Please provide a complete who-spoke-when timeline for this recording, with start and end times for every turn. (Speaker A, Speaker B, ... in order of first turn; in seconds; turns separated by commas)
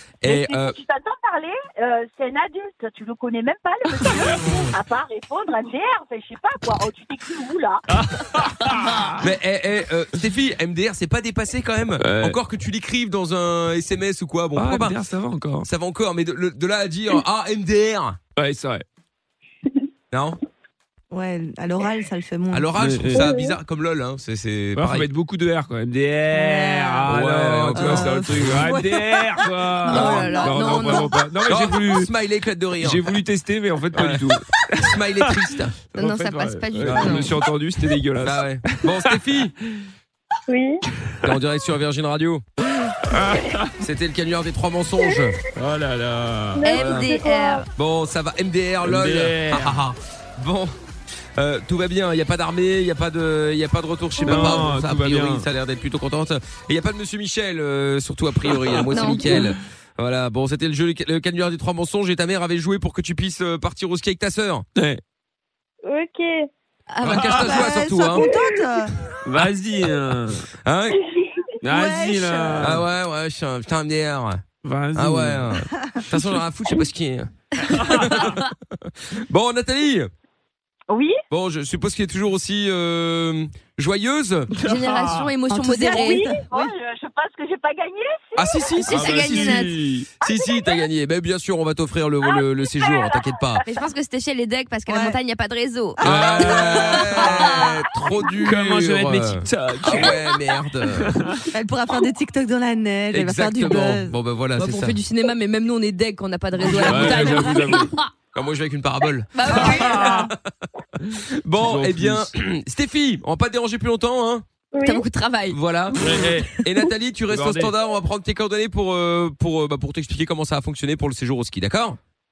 Speaker A: 0.2-0.8, Speaker B: 0.2-7.8, Speaker C: 7.9-9.2, Speaker A: 9.2-15.0, Speaker C: 12.0-12.4, Speaker C: 14.5-15.7, Speaker A: 15.6-18.2, Speaker C: 18.4-18.8, Speaker A: 20.1-20.4, Speaker D: 21.1-23.2, Speaker A: 22.5-25.1, Speaker C: 22.8-23.2, Speaker E: 23.1-23.6, Speaker C: 24.7-32.1, Speaker D: 26.3-27.1, Speaker F: 26.6-27.1, Speaker A: 27.1-28.6, Speaker D: 27.8-29.5, Speaker F: 27.8-28.1, Speaker F: 29.8-31.6, Speaker A: 29.9-30.4, Speaker A: 31.4-33.2, Speaker C: 32.8-35.4, Speaker A: 33.9-34.2, Speaker A: 34.8-35.8, Speaker C: 35.9-39.2, Speaker F: 35.9-37.5, Speaker A: 36.8-37.3, Speaker A: 38.2-39.5, Speaker E: 40.5-40.8, Speaker A: 41.2-42.4, Speaker C: 43.0-43.7, Speaker A: 43.8-45.4, Speaker C: 45.5-46.7, Speaker E: 46.5-47.6, Speaker F: 46.6-47.7, Speaker A: 46.7-47.1, Speaker A: 47.8-50.7, Speaker C: 48.8-49.8, Speaker A: 51.4-64.6, Speaker C: 54.2-55.5, Speaker F: 58.9-59.4, Speaker C: 64.8-65.0, Speaker E: 65.8-66.5, Speaker F: 66.9-67.3, Speaker A: 67.0-68.2, Speaker C: 67.1-67.5, Speaker D: 67.3-69.0, Speaker C: 69.2-70.5, Speaker A: 70.6-71.0, Speaker C: 71.6-72.8, Speaker D: 71.6-72.8, Speaker A: 72.6-74.4, Speaker C: 74.6-75.6, Speaker A: 74.9-80.1, Speaker C: 76.1-76.4, Speaker C: 77.8-78.2, Speaker B: 80.9-81.2, Speaker A: 81.3-84.5, Speaker C: 84.6-85.3, Speaker F: 84.6-86.2, Speaker D: 85.5-86.7, Speaker B: 85.8-89.0, Speaker A: 88.3-93.6, Speaker F: 88.8-89.8, Speaker C: 89.0-90.1, Speaker B: 90.2-90.8, Speaker B: 92.2-93.9, Speaker F: 93.6-97.7, Speaker D: 94.9-95.2, Speaker A: 96.0-101.2, Speaker C: 96.0-97.4, Speaker D: 96.1-96.8, Speaker C: 98.4-100.3, Speaker C: 100.9-101.4, Speaker D: 101.5-104.1, Speaker A: 103.1-105.0, Speaker F: 104.5-108.1, Speaker C: 106.6-107.9, Speaker A: 106.6-107.8, Speaker A: 108.3-110.3, Speaker F: 109.3-110.3, Speaker C: 109.5-110.3, Speaker A: 111.2-114.4, Speaker C: 111.6-112.3, Speaker E: 114.7-115.0, Speaker F: 114.8-116.6, Speaker A: 115.5-122.0, Speaker C: 116.0-116.5, Speaker C: 117.3-117.7